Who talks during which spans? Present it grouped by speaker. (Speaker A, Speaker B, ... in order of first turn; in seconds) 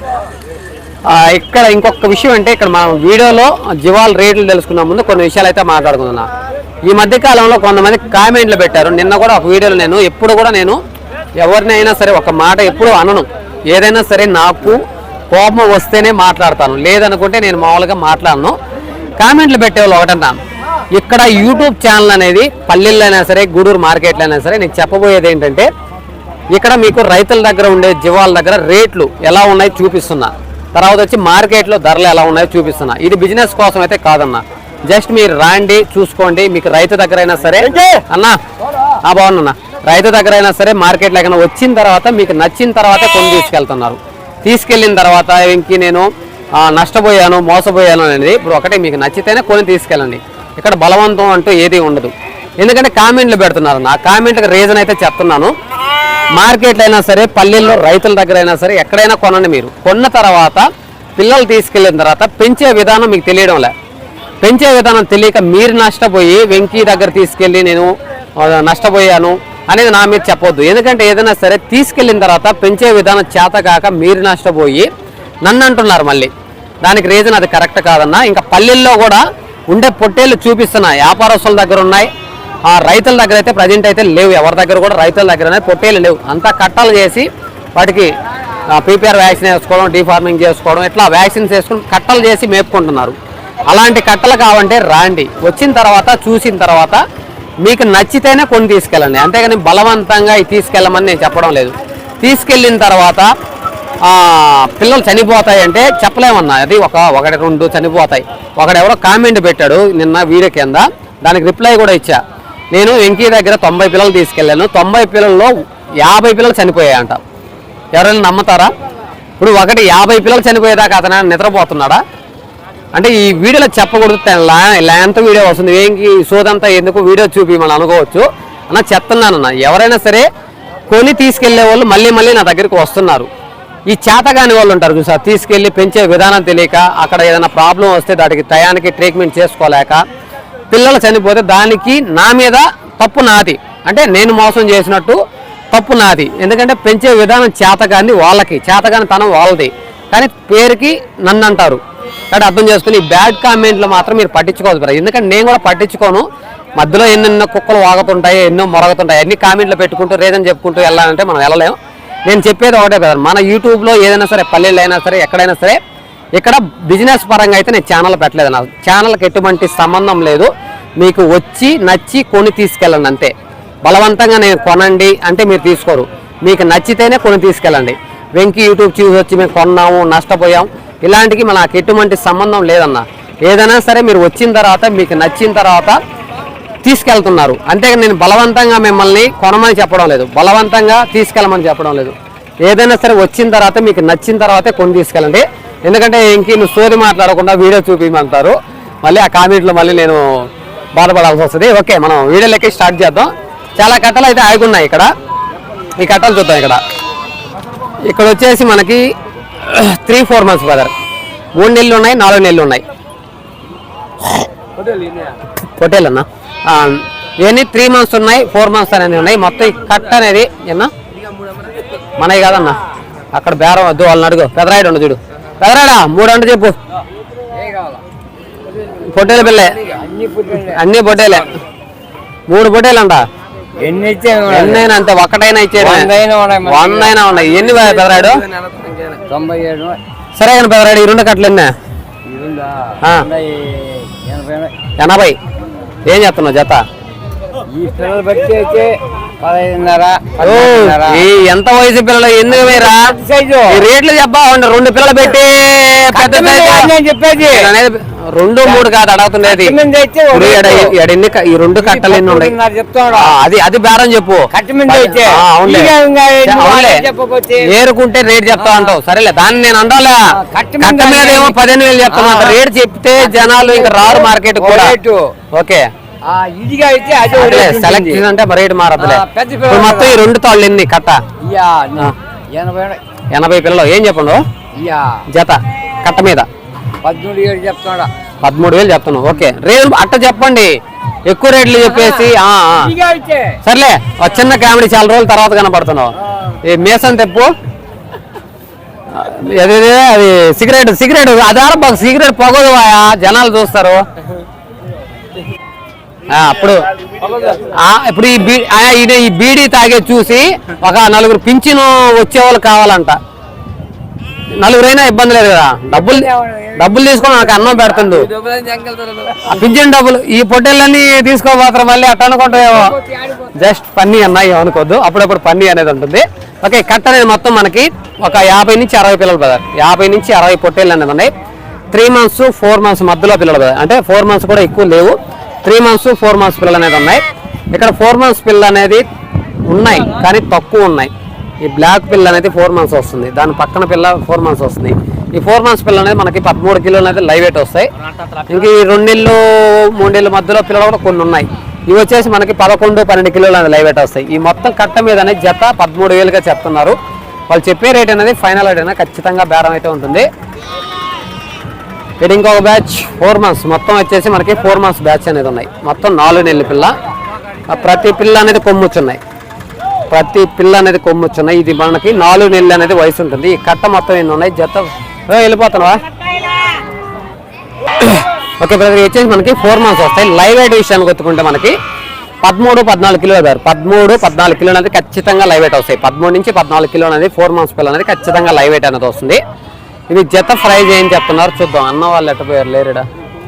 Speaker A: 1.1-6.3, 6.9-10.8, 11.4-18.6, 19.2-20.4, 20.9-25.7, 26.5-38.4, 39.0-55.5, 56.4-60.6, 61.2-63.7, 64.4-74.9, 75.4-76.3, 76.8-82.1, 82.7-88.1, 88.7-93.2, 93.7-97.0, 97.6-103.3, 104.0-112.2, 112.7-117.2, 118.0-118.7, 119.4-122.0, 122.9-130.3, 130.9-133.3, 133.9-140.0, 140.7-145.2, 145.7-151.8, 152.3-156.2, 156.8-161.8, 162.3-165.8, 166.4-173.3, 173.8-186.0, 186.8-200.2, 201.0-205.1, 206.0-206.8, 208.1-209.0, 209.6-210.9, 211.6-212.8, 215.8-220.9, 222.2-222.8, 223.3-226.8, 229.1-229.8, 230.7-231.5, 232.5-233.2, 234.5-236.1, 236.7-238.4, 240.4-241.7, 245.0-245.4, 246.1-246.8, 250.4-253.1, 253.7-256.9, 257.5-259.8, 260.3-262.5, 263.1-267.1, 267.6-275.0, 275.5-275.9, 277.3-281.2, 283.3-284.4, 285.3-286.5, 288.4-290.8, 291.3-292.9, 293.6-297.5, 299.1-304.1, 306.3-306.9, 307.7-313.2, 314.6-318.3, 319.4-322.9, 323.6-331.3, 331.9-337.2, 337.7-339.0, 339.7-347.9, 348.5-357.0, 357.5-360.3, 362.2-366.9, 367.7-369.2, 370.1-376.0, 378.0-381.8, 382.4-389.4, 390.1-393.1
Speaker B: 214.8-215.3, 227.5-228.0, 229.8-230.8, 233.8-234.9, 235.8-237.2, 238.8-240.0, 242.2-244.7, 247.7-251.2, 252.5-253.8, 256.1-257.7, 259.4-260.9, 261.8-263.4, 264.5-267.7, 268.6-268.9, 270.3-271.6, 272.1-272.6, 273.2-275.3, 276.3-278.2, 279.0-280.2, 281.4-283.0, 284.8-285.2, 287.0-288.1, 291.8-293.6, 307.2-307.6, 315.9-319.5, 322.5-323.6